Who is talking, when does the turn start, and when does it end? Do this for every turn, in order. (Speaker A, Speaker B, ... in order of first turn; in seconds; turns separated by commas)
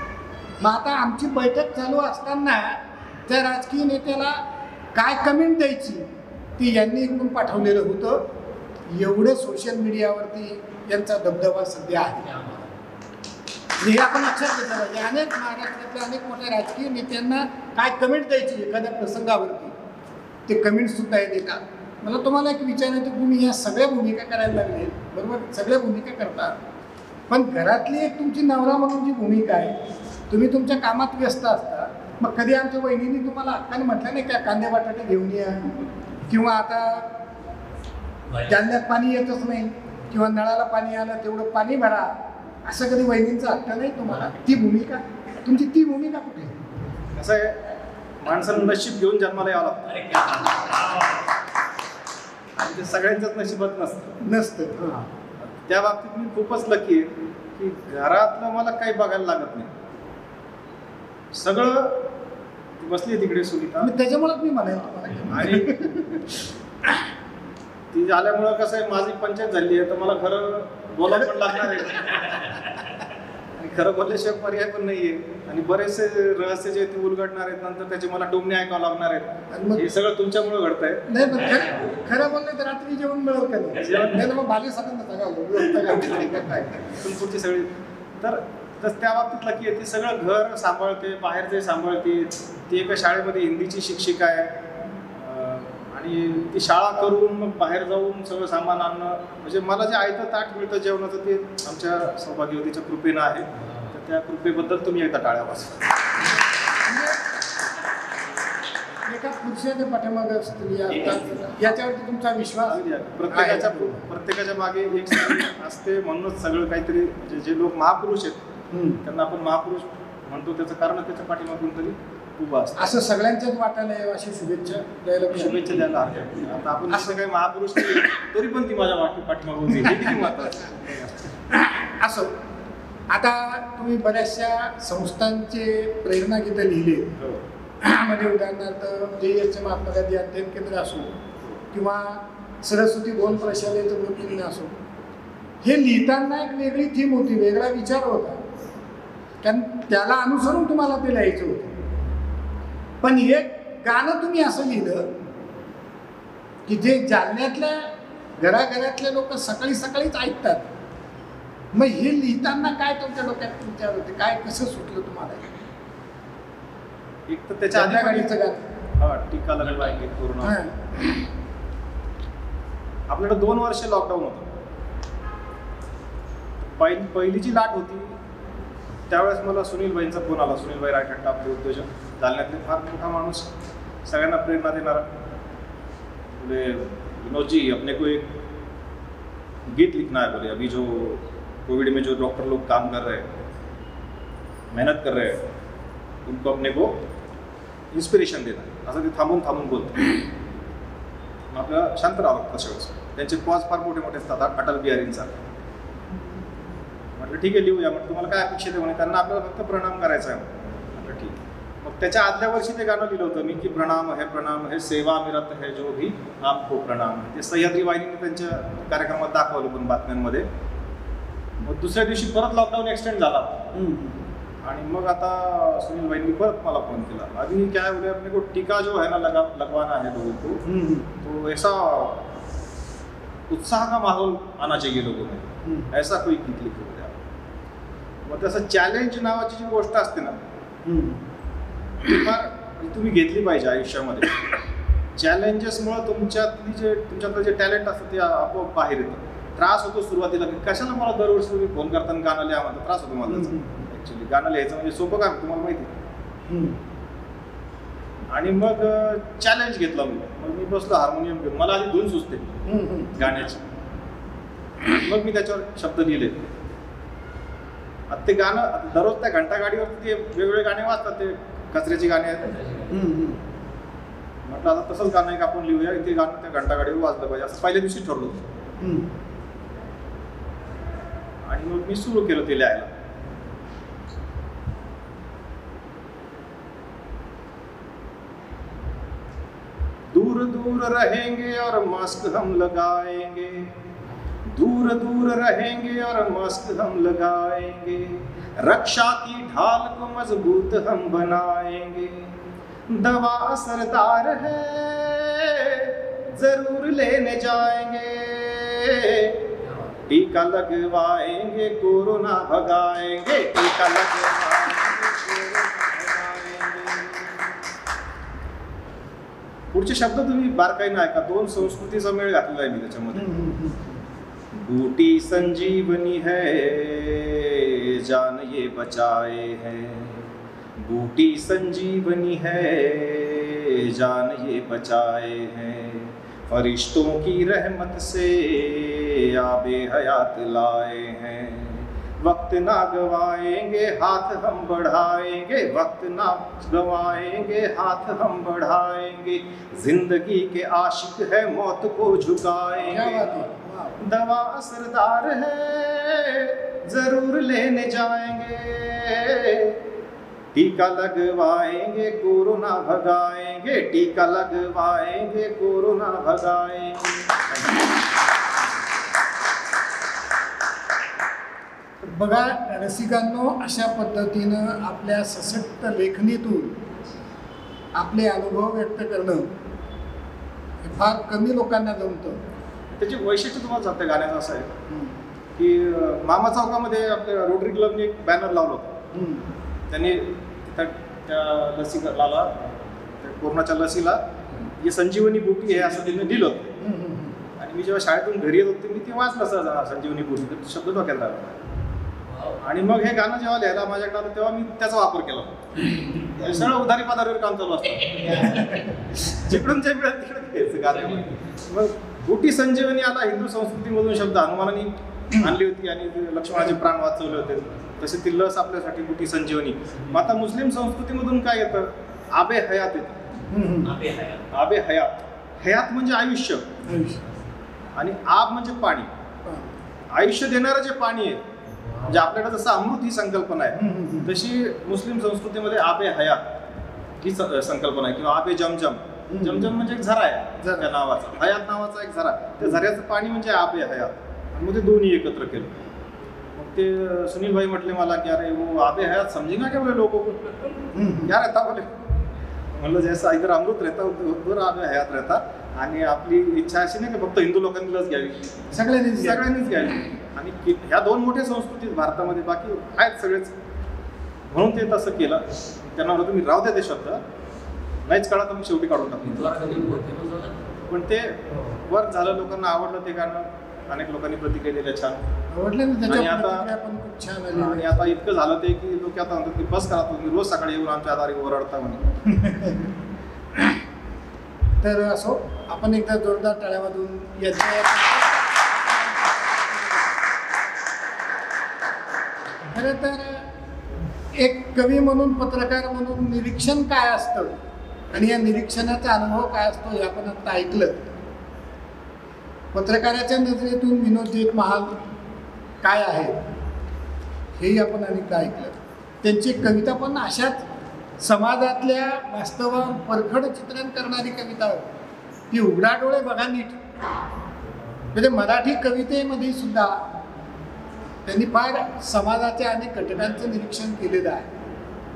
Speaker A: 0.6-4.4, Speaker A: 4.9-6.1, Speaker A: 6.6-8.2, Speaker A: 8.9-12.3, Speaker B: 12.2-12.7, Speaker A: 13.8-19.7, Speaker A: 20.5-26.6, Speaker A: 27.3-29.8, Speaker A: 30.3-37.1, Speaker A: 38.4-46.6, Speaker C: 47.1-47.6, Speaker C: 48.2-50.1, Speaker B: 49.9-51.3, Speaker C: 52.6-54.2, Speaker A: 54.2-55.1, Speaker C: 55.4-59.7, Speaker C: 61.3-62.0, Speaker C: 62.8-63.9, Speaker A: 63.8-66.5, Speaker C: 65.2-65.8, Speaker C: 67.9-72.7, Speaker C: 73.5-81.7, Speaker A: 79.5-79.8, Speaker A: 81.1-86.8, Speaker C: 83.8-84.2, Speaker C: 86.0-87.7, Speaker C: 88.2-106.0, Speaker A: 106.8-107.2, Speaker A: 109.0-114.0, Speaker C: 111.3-111.7, Speaker C: 112.7-118.4, Speaker A: 118.7-119.0, Speaker C: 119.0-123.0, Speaker A: 122.8-125.5, Speaker C: 125.3-131.3, Speaker A: 131.5-132.3, Speaker A: 133.1-137.1, Speaker C: 137.2-137.4, Speaker A: 137.8-141.1, Speaker A: 141.7-144.7, Speaker A: 145.6-148.4, Speaker A: 149.4-151.8, Speaker A: 153.0-155.1, Speaker A: 156.7-160.7, Speaker A: 161.7-165.5, Speaker C: 167.3-168.3, Speaker A: 167.7-168.6, Speaker C: 169.0-170.6, Speaker A: 170.4-171.0, Speaker C: 173.1-174.5, Speaker C: 176.8-178.2, Speaker C: 179.1-183.5, Speaker C: 184.0-185.1, Speaker C: 186.3-188.3, Speaker C: 189.6-193.3, Speaker C: 194.7-195.4, Speaker C: 196.2-197.0, Speaker C: 197.9-200.2, Speaker C: 201.5-205.4, Speaker C: 207.2-220.5, Speaker C: 221.6-223.6, Speaker A: 223.7-224.2, Speaker C: 224.6-230.6, Speaker A: 230.6-231.1, Speaker C: 231.2-232.2, Speaker C: 233.5-237.1, Speaker A: 235.6-235.9, Speaker C: 238.2-240.4, Speaker A: 240.8-241.2, Speaker C: 242.0-244.4, Speaker C: 245.2-255.9, Speaker A: 253.3-253.8, Speaker A: 256.5-256.8, Speaker C: 258.3-262.5, Speaker A: 262.6-263.1, Speaker C: 263.1-263.6, Speaker C: 264.9-266.4, Speaker C: 268.1-272.6, Speaker A: 272.9-273.4, Speaker C: 274.4-278.4, Speaker A: 278.8-279.1, Speaker C: 281.4-282.9, Speaker C: 290.1-293.7, Speaker C: 294.4-302.3, Speaker C: 302.9-309.4, Speaker B: 309.6-309.9, Speaker C: 310.1-317.3, Speaker C: 319.7-323.3, Speaker A: 323.1-323.9, Speaker C: 324.5-353.4, Speaker A: 352.8-354.0, Speaker C: 354.0-359.8, Speaker C: 360.5-367.9, Speaker A: 372.0-376.8, Speaker A: 377.9-379.5, Speaker A: 380.8-382.4, Speaker C: 382.9-384.7, Speaker A: 384.9-385.1, Speaker C: 385.6-388.9, Speaker A: 389.1-389.5, Speaker C: 389.9-392.7, Speaker C: 393.2-394.2, Speaker C: 394.8-396.7, Speaker A: 396.8-397.4, Speaker C: 397.6-401.6, Speaker B: 402.3-402.6, Speaker C: 402.6-423.2, Speaker A: 415.3-415.6, Speaker A: 423.5-423.9, Speaker B: 423.8-424.4, Speaker C: 424.5-426.7, Speaker A: 426.9-427.2, Speaker C: 427.9-429.1, Speaker A: 429.4-429.7, Speaker C: 430.1-431.4, Speaker C: 432.0-436.4, Speaker A: 433.7-434.3, Speaker C: 437.2-445.8, Speaker A: 439.3-439.7, Speaker A: 440.6-440.9, Speaker C: 446.5-450.7, Speaker A: 450.9-451.3, Speaker C: 451.2-451.9, Speaker C: 452.7-458.4, Speaker A: 458.7-459.4, Speaker C: 459.1-463.5, Speaker C: 464.5-467.2, Speaker C: 468.1-469.7, Speaker B: 469.3-470.6, Speaker C: 470.9-475.2, Speaker A: 475.5-478.1, Speaker C: 476.1-476.7, Speaker C: 477.5-482.1, Speaker A: 482.3-482.9, Speaker A: 484.8-488.4, Speaker A: 492.7-493.5, Speaker A: 494.3-497.5, Speaker A: 498.1-501.1, Speaker A: 502.7-505.0, Speaker A: 505.8-506.4, Speaker A: 507.6-510.6, Speaker A: 511.2-514.9, Speaker A: 515.5-516.8, Speaker A: 518.1-520.0, Speaker A: 521.2-524.5